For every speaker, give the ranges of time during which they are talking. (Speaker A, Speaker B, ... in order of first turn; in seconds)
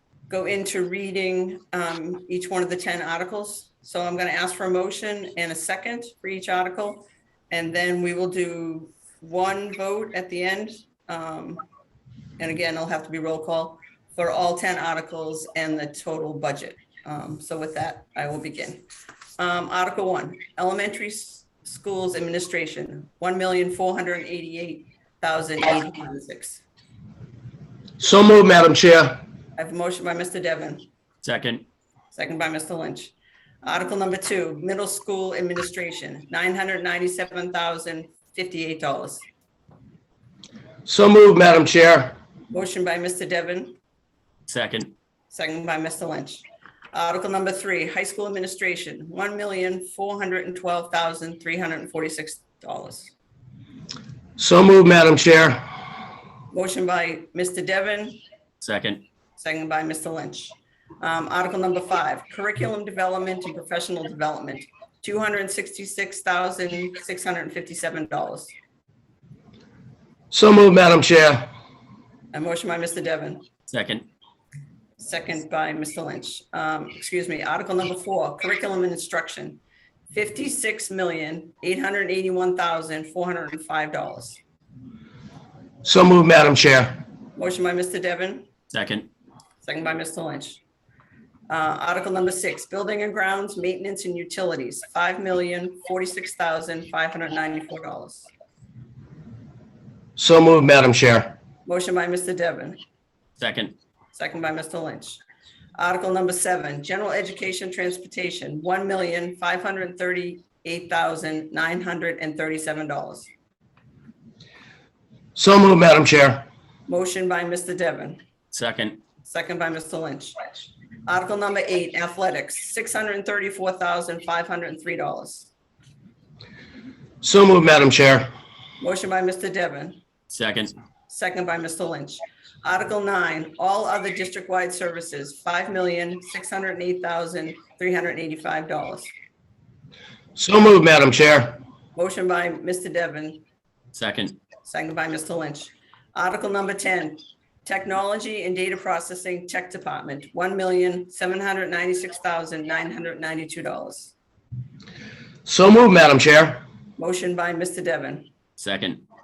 Speaker A: 0.3-11.6, 12.4-18.9, 19.4-26.6, 29.6-30.9, 32.1-39.3, 42.5-43.8, 45.3-53.1, 56.5-58.2, 59.4-68.5, 72.3-73.5, 75.0-79.6, 80.1-84.4, 87.4-88.5, 89.6-90.6, 91.5-98.3, 101.7-102.8, 104.1-105.2, 105.8-113.3, 116.9-118.2, 119.2-125.5, 128.8-130.0, 131.1-139.1, 141.9-143.4, 144.7-154.1, 157.0-158.3
Speaker B: 28.0-29.2, 40.9-42.2, 54.4-55.6, 70.3-71.5, 85.8-87.0, 100.2-101.3, 115.3-116.5, 127.2-128.3, 140.4-141.6, 155.4-156.6
Speaker C: 31.2-31.7, 44.5-44.9, 58.6-59.0, 73.7-74.1, 88.7-89.1, 103.4-103.8, 118.5-119.0, 130.3-130.7, 143.9-144.3, 158.6-159.0